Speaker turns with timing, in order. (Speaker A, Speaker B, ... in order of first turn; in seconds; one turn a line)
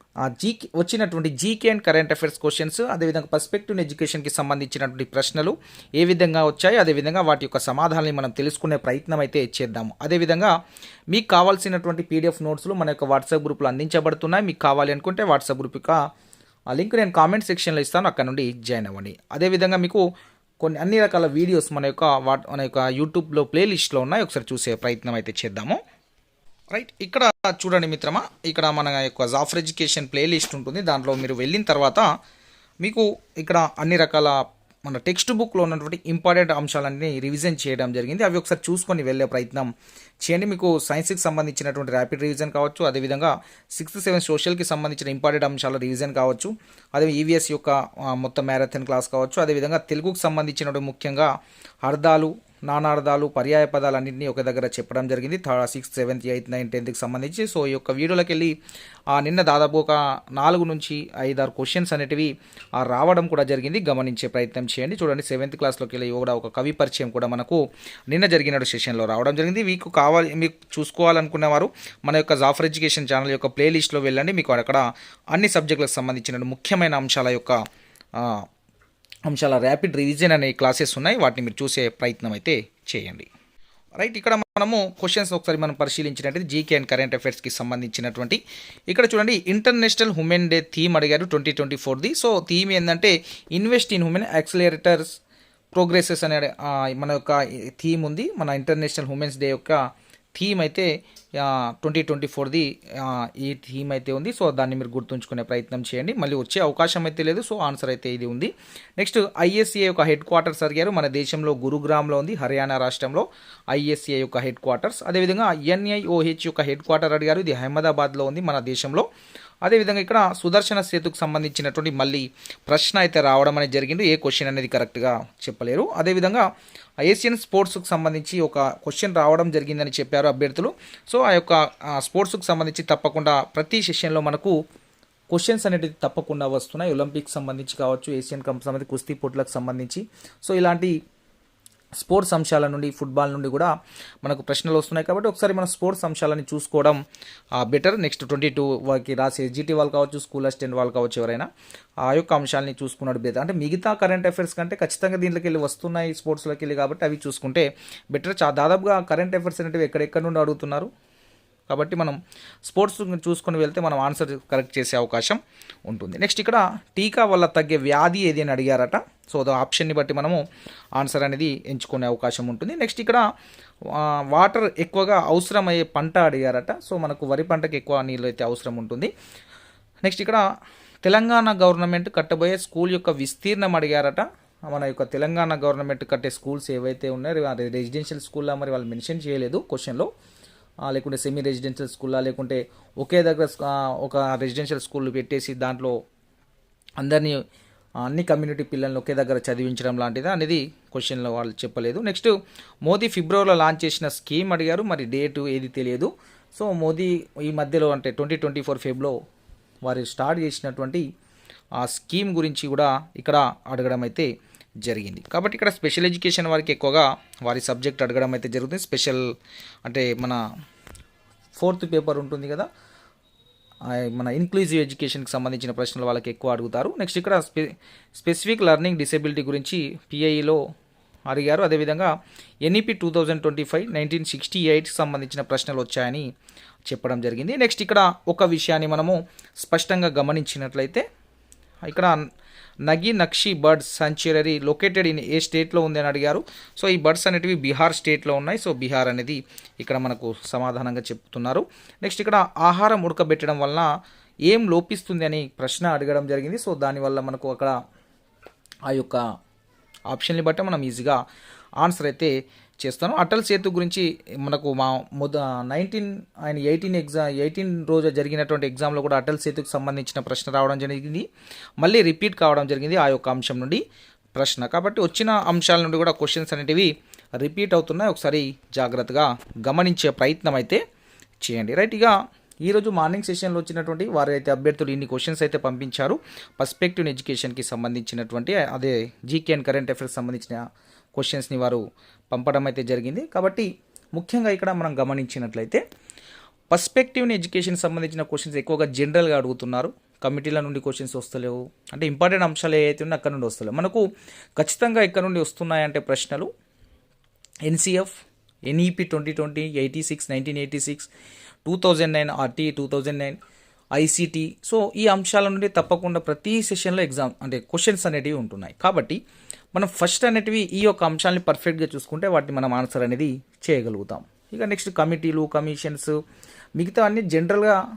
Speaker A: 0.2-10.5
Speaker A: 11.1-16.0
Speaker A: 16.7-20.0
Speaker A: 20.6-25.8
Speaker A: 26.7-32.1
Speaker A: 32.8-39.7
Speaker A: 40.2-51.3
Speaker A: 51.8-58.5
Speaker A: 59.1-77.5
Speaker A: 78.2-78.4
Speaker A: 79.3-83.3
Speaker A: 84.0-95.2
Speaker A: 95.7-99.8
Speaker A: 100.3-119.1
Speaker A: 119.6-126.4
Speaker A: 127.0-134.6
Speaker A: 135.3-140.9
Speaker A: 142.0-143.7
Speaker A: 144.2-147.0
Speaker A: 147.6-151.5
Speaker A: 152.0-160.9
Speaker A: 161.7-170.4
Speaker A: 171.0-173.2
Speaker A: 173.9-179.1
Speaker A: 180.0-180.4
Speaker A: 181.0-190.1
Speaker A: 190.9-195.9
Speaker A: 197.0-197.4
Speaker A: 198.0-202.3
Speaker A: 202.8-209.2
Speaker A: 209.8-211.0
Speaker A: 211.8-214.3
Speaker A: 214.8-219.2
Speaker A: 219.8-220.4
Speaker A: 221.6-222.7
Speaker A: 223.9-230.6
Speaker A: 231.3-232.1
Speaker A: 232.6-236.3
Speaker A: 236.9-241.0
Speaker A: 241.8-242.2
Speaker A: 242.9-253.9
Speaker A: 254.5-257.7
Speaker A: 258.9-259.2
Speaker A: 260.1-261.2
Speaker A: 261.8-271.2
Speaker A: 271.8-273.8
Speaker A: 274.4-280.8
Speaker A: 281.4-290.6
Speaker A: 291.1-295.8
Speaker A: 296.7-304.0
Speaker A: 304.6-306.5
Speaker A: 307.7-308.1
Speaker A: 308.7-311.1
Speaker A: 311.6-313.4
Speaker A: 313.9-319.2
Speaker A: 319.7-326.1
Speaker A: 326.8-327.8